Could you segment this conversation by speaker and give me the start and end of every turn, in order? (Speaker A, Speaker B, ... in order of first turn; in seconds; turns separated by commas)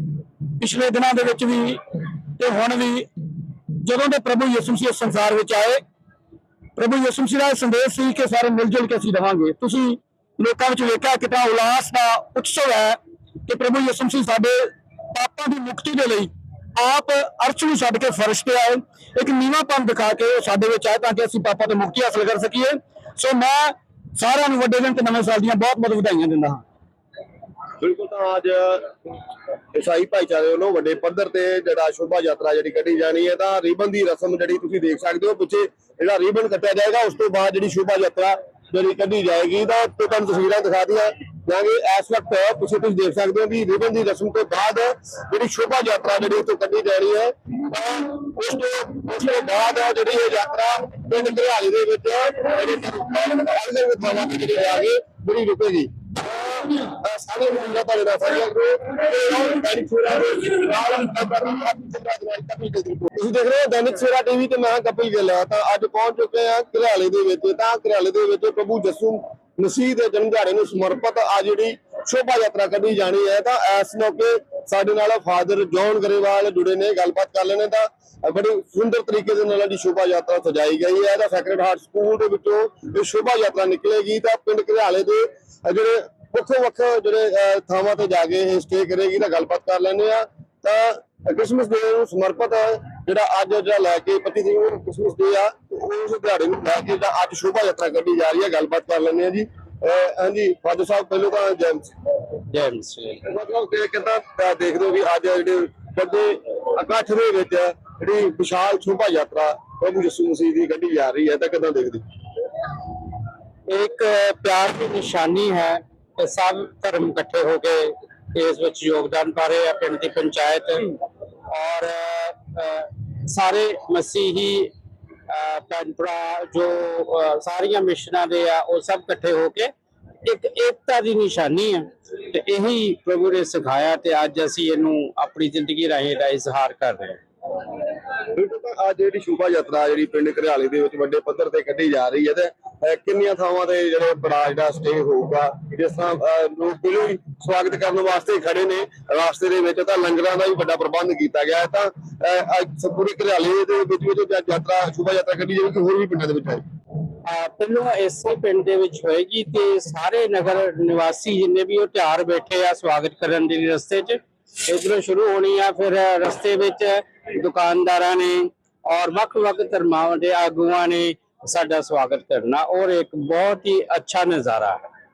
Speaker A: 0.6-1.8, Speaker A: 2.4-3.1, Speaker A: 3.8-5.8, Speaker A: 6.8-26.6, Speaker B: 27.8-28.9, Speaker B: 29.7-101.9, Speaker C: 102.5-103.2, Speaker B: 103.3-112.0, Speaker C: 113.7-124.7, Speaker C: 125.3-129.7, Speaker C: 130.2-137.2, Speaker B: 138.3-156.6, Speaker C: 157.2-174.8